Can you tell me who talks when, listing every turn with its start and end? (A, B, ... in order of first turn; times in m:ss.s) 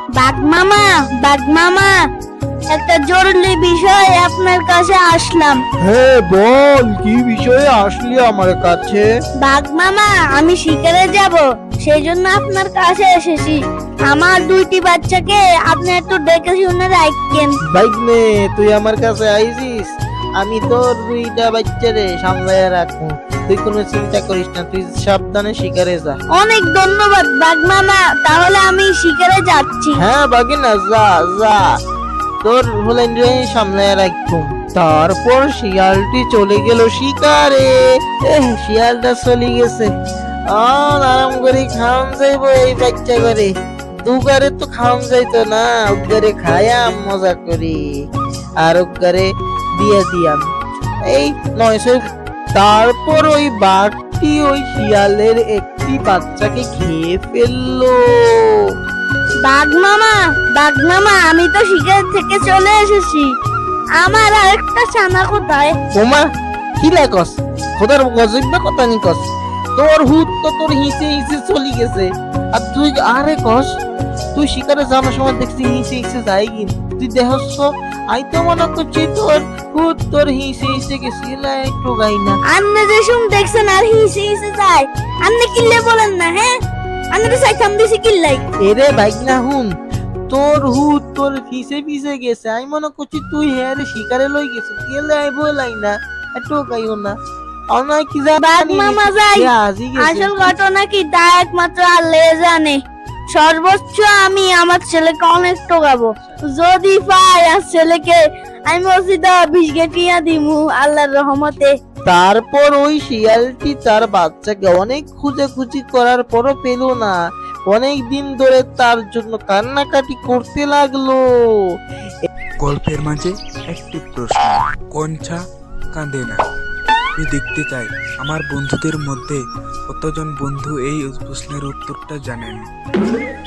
0:00.2-0:01.9 A
0:02.7-0:05.6 A
0:05.8-0:09.1 B
0:09.4-0:17.5 A
0:17.7-0:26.2 B
0:26.4-0:30.0 A
0:30.0-0:31.6 B
0:32.4-0:39.9 B
0:40.5-0:43.5 B
0:44.0-0:47.8 B
0:48.6-0:50.4 B
0:51.1-0:52.0 B
0:52.6-0:58.4 B
0:59.4-1:03.3 A
1:04.0-1:05.7 A
1:05.9-1:06.3 B
1:06.8-1:13.7 B
1:14.4-1:22.4 B
1:22.5-1:26.5 A
1:27.1-1:28.4 A
1:28.6-1:29.7 B
1:30.3-1:37.2 B
1:37.7-1:40.5 B
1:38.4-1:39.4 A
1:40.0-1:42.8 A
1:43.3-1:48.2 A
1:48.7-1:51.7 A
1:52.1-1:57.2 B
1:57.7-2:01.2 B
2:02.6-2:05.4 C
2:05.9-2:06.4 C
2:07.2-2:12.6 C